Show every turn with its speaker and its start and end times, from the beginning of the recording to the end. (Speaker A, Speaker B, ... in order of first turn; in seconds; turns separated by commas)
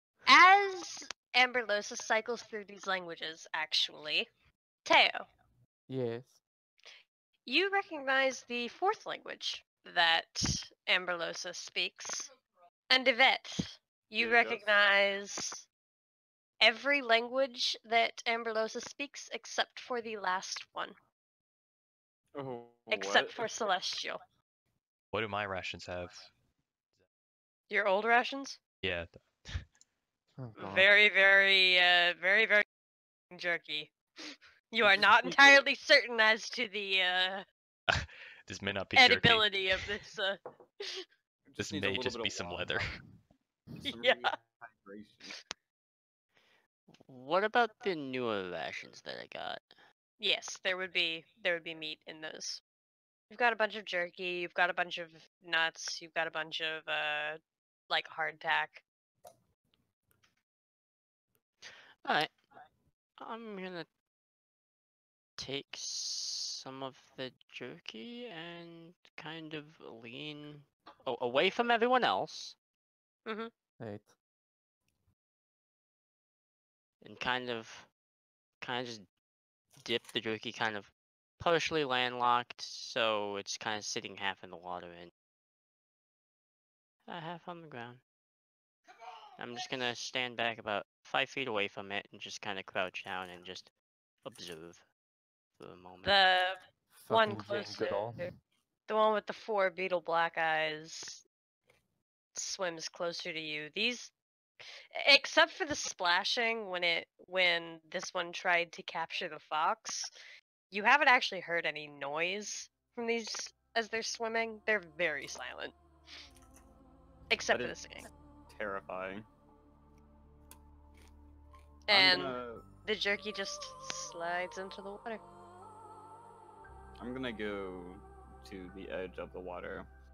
Speaker A: 0.3-4.3, Speaker A: 4.8-5.3, Speaker B: 5.9-6.4, Speaker A: 7.5-12.3, Speaker A: 12.9-15.7, Speaker C: 14.2-14.6, Speaker A: 16.6-20.9, Speaker C: 22.4-23.5, Speaker A: 22.9-24.2, Speaker D: 25.1-26.3, Speaker A: 27.7-28.6, Speaker D: 28.8-29.6, Speaker B: 30.4-30.9, Speaker A: 30.6-32.6, Speaker A: 33.3-37.5, Speaker C: 34.9-35.6, Speaker D: 37.9-39.5, Speaker A: 39.0-41.0, Speaker C: 41.5-42.9, Speaker D: 41.6-43.0, Speaker C: 43.8-45.4, Speaker A: 43.9-44.3, Speaker E: 47.0-49.6, Speaker A: 50.2-52.6, Speaker A: 53.3-57.4, Speaker A: 57.9-58.8, Speaker E: 62.0-62.3, Speaker E: 63.2-63.9, Speaker E: 65.4-72.6, Speaker A: 73.3-73.5, Speaker B: 73.8-74.1, Speaker E: 77.0-77.9, Speaker E: 78.6-79.1, Speaker E: 79.8-85.1, Speaker E: 87.1-88.0, Speaker E: 89.4-93.7, Speaker E: 94.2-94.8, Speaker E: 95.6-96.2, Speaker A: 96.0-98.3, Speaker B: 97.0-98.3, Speaker A: 98.9-101.2, Speaker A: 102.3-104.1, Speaker A: 104.9-110.1, Speaker A: 110.7-115.8, Speaker A: 117.3-118.1, Speaker C: 117.5-119.3, Speaker A: 121.9-125.2, Speaker C: 121.9-122.7, Speaker C: 127.0-129.9